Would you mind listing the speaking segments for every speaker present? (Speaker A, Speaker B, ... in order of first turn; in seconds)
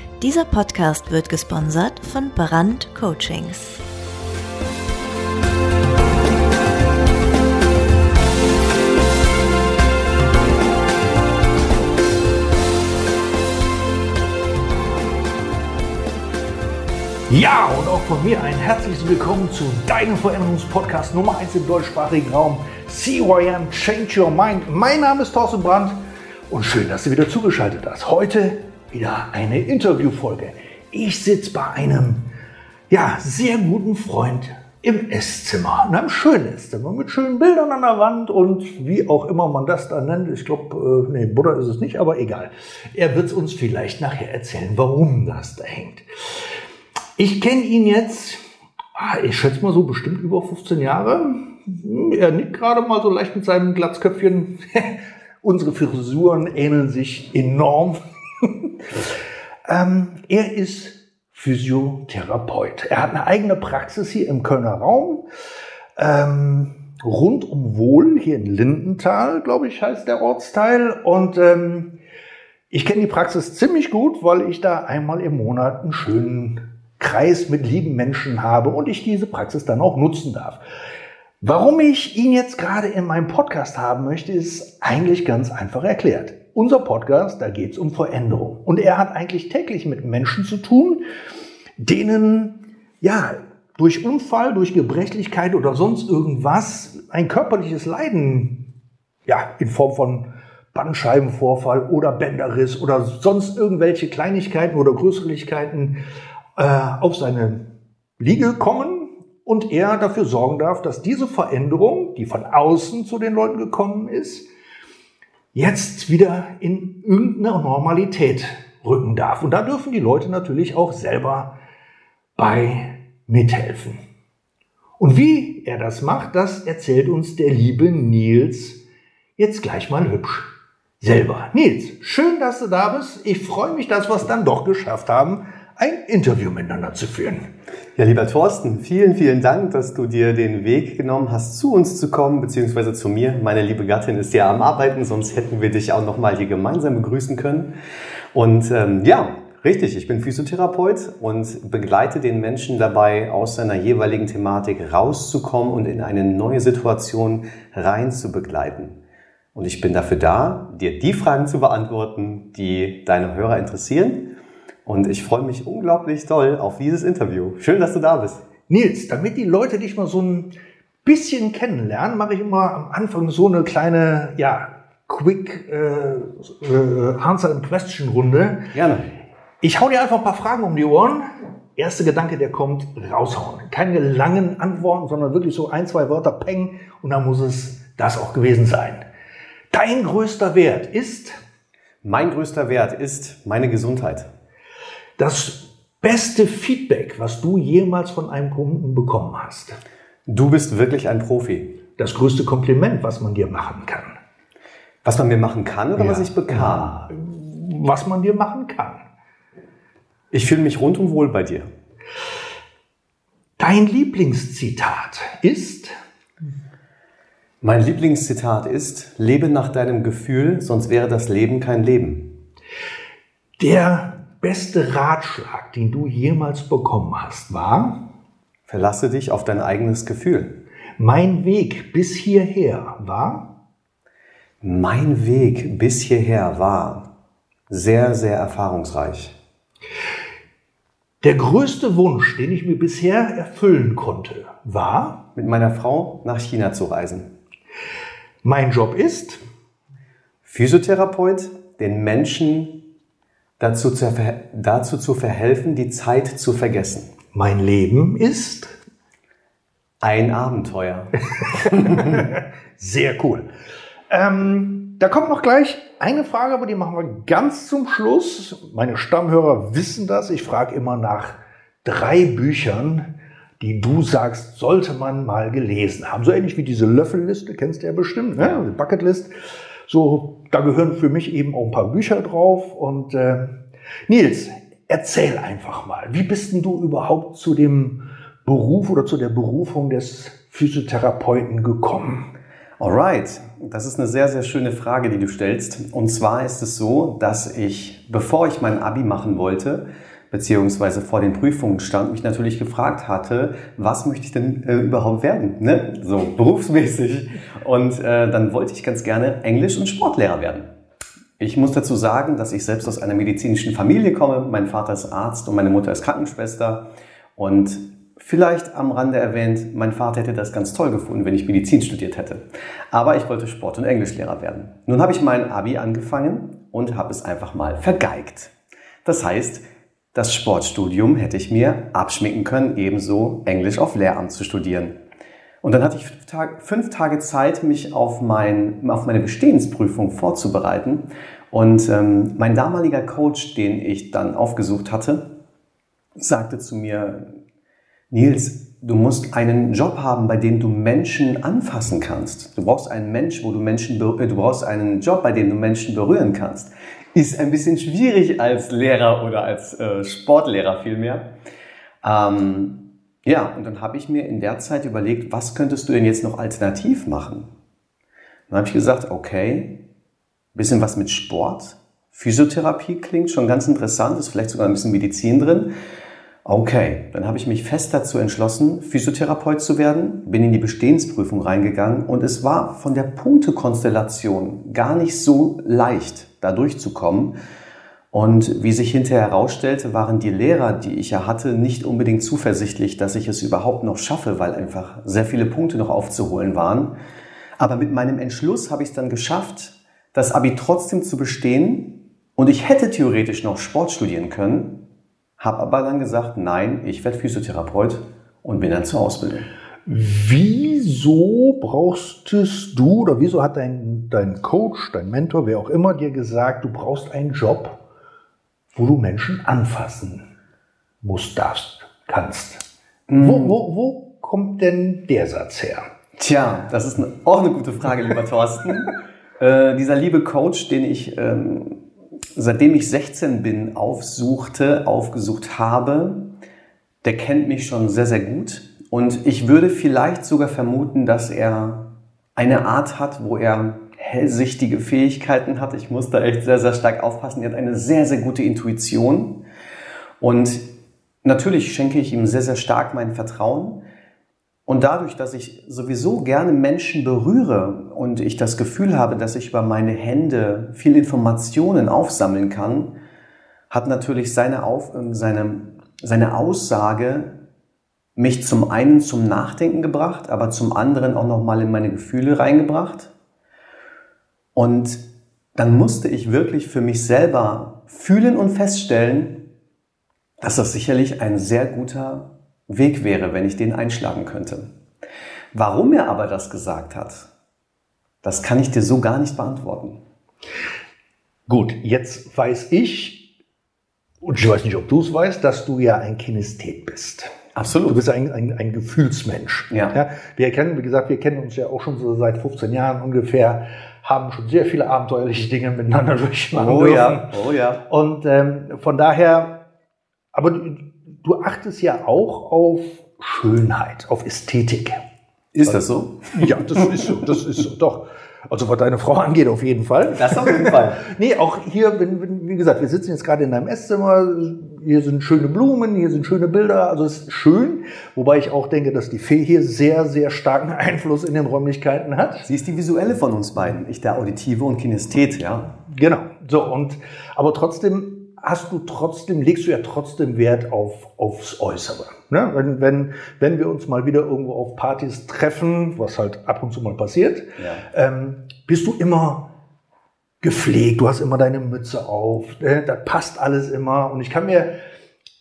Speaker A: 0.2-3.8
Speaker B: 17.3-26.0, 26.5-32.3, 32.9-46.5, 47.2-48.4, 49.0-65.2, 66.0-71.9, 72.7-80.6, 81.4-91.0, 91.8-98.6, 99.3-106.0, 106.6-107.7, 108.2-114.5, 115.5-121.5, 122.4-124.0, 125.0-128.8, 129.4-137.5, 168.7-170.5, 171.1-178.7, 179.6-189.0, 189.7-191.4, 195.2-199.8, 202.0-204.2, 206.0-209.1, 213.6-216.0, 223.6-228.0, 231.0-233.5, 241.2-245.2, 248.4-249.4, 257.3-258.8, 261.7-263.5, 264.1-273.1, 273.6-279.3, 279.9-283.6, 284.1-292.3, 409.9-417.8, 418.7-420.3, 421.0-422.6, 423.2-425.9, 491.5-493.3, 494.2-497.3, 497.9-507.3, 507.9-509.6, 510.3-515.0, 516.4-532.5, 535.9-549.5, 550.4-554.8
Speaker C: 138.0-147.7, 148.3-159.0, 159.6-164.3, 164.8-168.4, 178.7-179.1, 192.0-194.3, 200.3-201.7, 205.1-207.0, 210.3-211.7, 217.6-222.3, 228.7-230.6, 234.6-237.1, 237.7-239.4, 245.3-247.3, 250.4-252.8, 253.6-257.1, 260.0-262.3, 278.4-278.6, 292.8-310.7, 311.4-335.0, 335.6-345.3, 346.2-347.4, 348.1-361.3, 362.0-367.5, 368.5-369.8, 370.5-375.7, 376.4-387.4, 388.1-396.9, 397.6-404.8, 405.4-409.5, 423.1-423.6, 426.2-431.8, 432.4-436.3, 437.0-449.4, 450.2-450.7, 451.2-453.8, 454.7-462.9, 463.7-467.3, 468.2-473.1, 474.6-475.1, 475.6-479.4, 480.4-484.7, 485.5-487.3, 488.2-490.0, 497.6-498.0, 499.7-500.0, 506.5-507.8, 515.5-516.9, 520.1-521.0, 532.4-535.8, 547.6-547.9